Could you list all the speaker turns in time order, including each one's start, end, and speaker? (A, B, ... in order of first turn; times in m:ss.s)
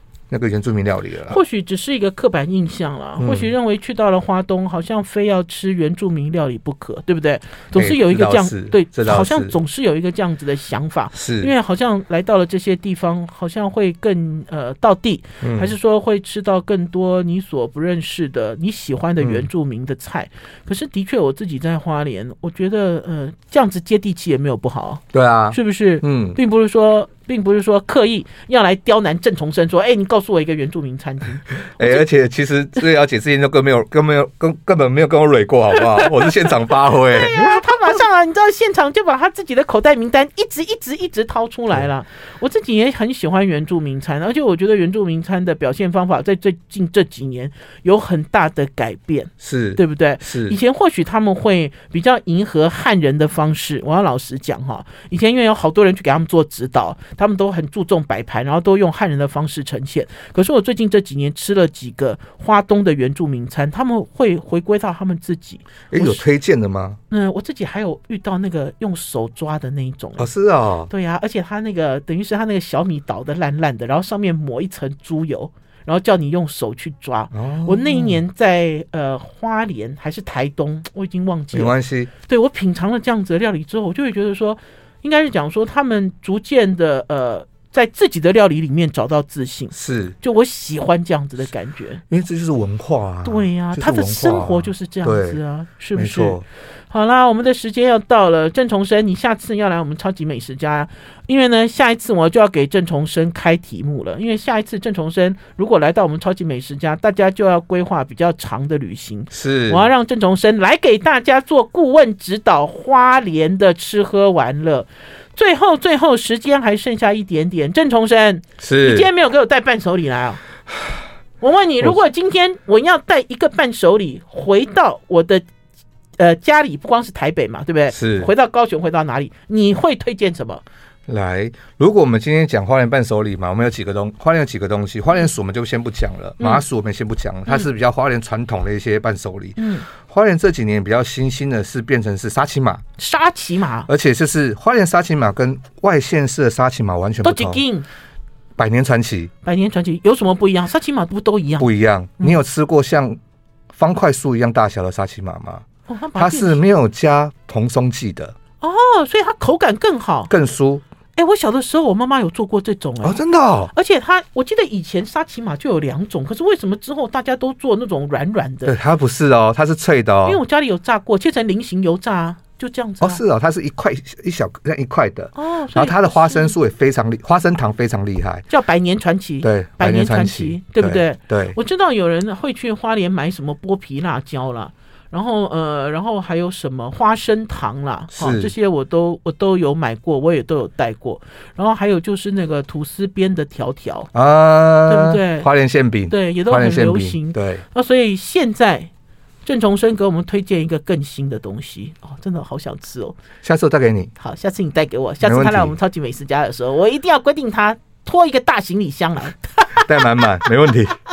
0:00.3-0:01.4 A
0:01.3-0:32.0 B
0:03.2-0:03.5 A
0:07.7-0:09.6 A
0:11.1-0:11.5 A
0:15.4-0:15.7 A
0:19.2-0:19.5 A
0:25.1-0:26.4 A
0:31.8-0:37.8 A
0:37.0-1:06.2 B
0:49.4-0:50.6 A
1:05.9-1:07.0 A
1:07.1-1:10.3 B
1:10.2-1:10.9 A
1:10.9-1:32.0 B
1:17.3-1:18.2 A
1:21.5-1:22.1 A
1:29.7-1:30.2 A
1:32.1-1:35.4 A
1:33.2-2:00.4 B
1:36.0-1:36.4 A
1:49.3-1:49.9 A
1:58.6-1:59.1 A
2:01.4-2:05.4 B
2:06.2-2:10.6 B
2:07.9-2:08.3 A
2:11.1-2:22.8 A
2:16.4-2:16.6 B
2:19.6-2:19.9 B
2:23.0-2:23.9 B
2:23.9-2:27.6 A
2:27.2-2:27.9 B
2:28.6-2:29.3 A
2:29.4-2:31.7 B
2:31.6-2:33.2 A
2:33.7-2:35.6 A
2:35.9-2:36.6 B
2:36.2-2:38.4 A
2:38.6-2:40.3 B
2:40.3-2:40.8 A
2:41.2-2:43.2 B
2:43.0-2:43.7 A
2:43.7-2:48.8 B
2:48.6-2:50.4 A
2:50.2-2:53.2 B
2:53.0-2:58.4 A
2:55.4-2:56.5 B
2:58.5-3:14.1 B
2:59.4-3:01.6 A
3:08.1-3:08.5 A
3:14.1-3:17.6 A
3:14.9-3:15.5 B
3:16.1-3:18.9 B
3:19.4-3:23.2 B
3:23.4-3:24.1 A
3:24.2-3:30.5 B
3:25.2-3:25.8 A
3:29.7-3:31.0 A